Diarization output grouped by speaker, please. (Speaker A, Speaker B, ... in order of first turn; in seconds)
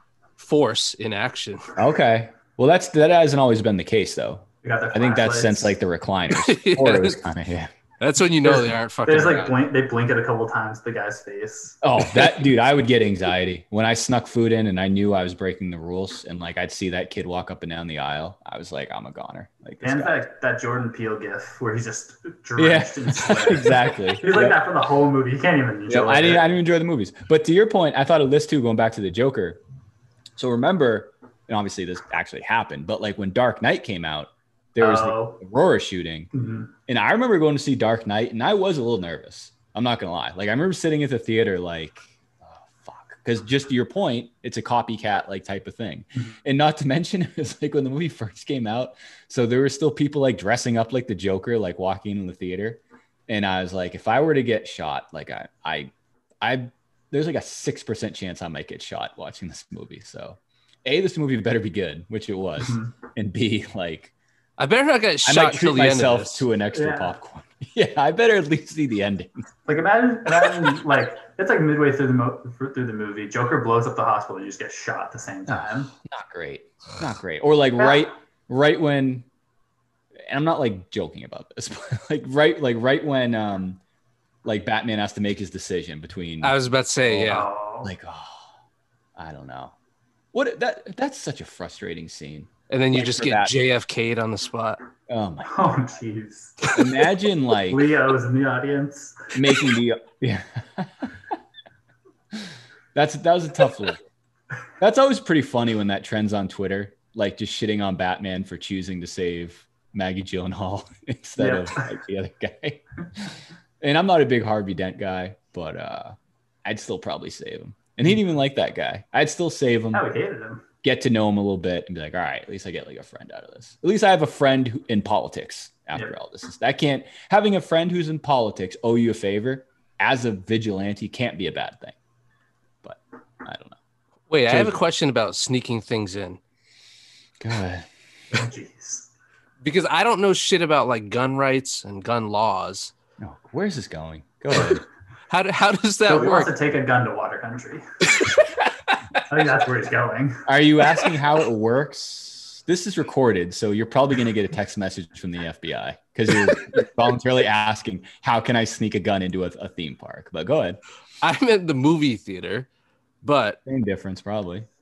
Speaker A: 0.4-1.6, 6.3-7.2, 8.0-9.5, 64.6-66.4, 86.4-87.5, 92.7-94.8, 134.3-136.4, 139.6-142.9, 145.3-146.5, 161.2-162.7, 163.2-163.6
Speaker B: 1.8-7.7, 9.1-9.4, 11.8-20.2, 22.6-24.6, 25.9-29.6, 30.4-36.3, 36.9-64.1, 65.2-69.4, 75.5-79.3, 80.2-83.8, 84.4-86.5, 87.1-88.5, 89.2-89.7, 90.3-93.5, 95.1-95.5, 96.7-97.9, 99.3-101.2, 102.3-104.0, 104.8-120.0, 120.8-131.9, 132.8-133.8, 134.5-134.8, 137.4-137.9, 143.2-144.8, 150.4-160.8, 163.7-164.7
Speaker C: 4.6-5.8, 8.4-11.8, 19.8-26.5, 34.8-35.4, 36.3-36.7, 62.6-62.9, 66.7-67.2, 69.7-75.9, 77.8-78.1, 87.2-87.9, 95.4-96.6, 97.7-99.6, 111.4-111.8, 119.9-120.7, 138.3-139.1, 146.1-147.8, 149.3-150.4